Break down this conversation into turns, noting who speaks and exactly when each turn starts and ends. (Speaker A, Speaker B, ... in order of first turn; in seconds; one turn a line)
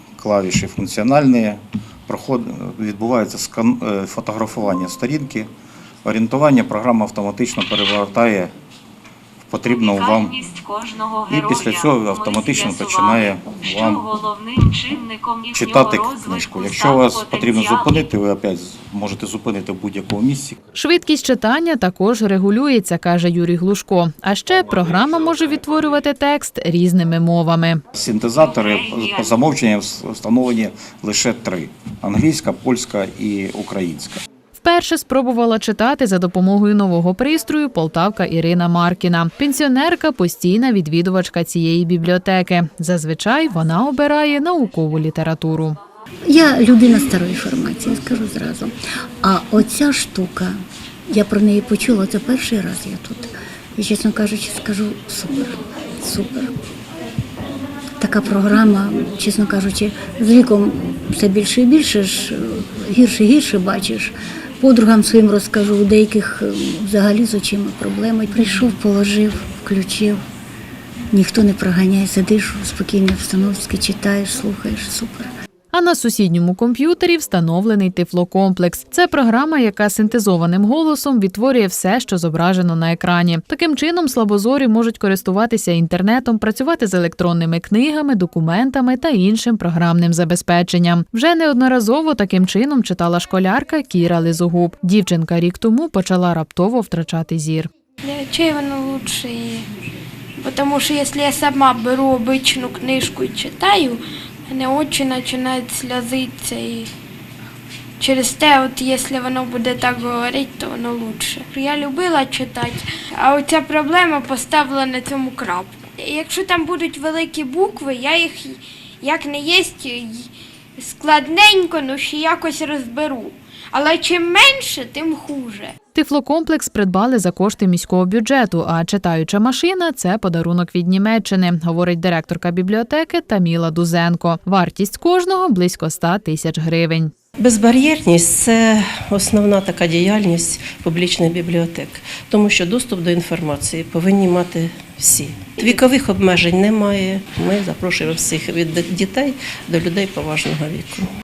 Speaker A: 0.2-5.5
Speaker A: 6.0-8.5
Speaker A: 9.5-10.4
Speaker A: 11.3-14.1
Speaker A: 15.5-20.6
Speaker B: 20.8-27.8
Speaker A: 27.9-34.2
Speaker B: 34.6-45.8
Speaker C: 46.3-50.6
Speaker C: 51.1-56.5
Speaker C: 58.0-70.2
Speaker C: 71.1-75.3
Speaker B: 75.7-97.7
Speaker D: 98.0-99.7
Speaker D: 100.4-106.9
Speaker D: 108.0-125.8
Speaker B: 126.0-137.1
Speaker E: 137.4-151.1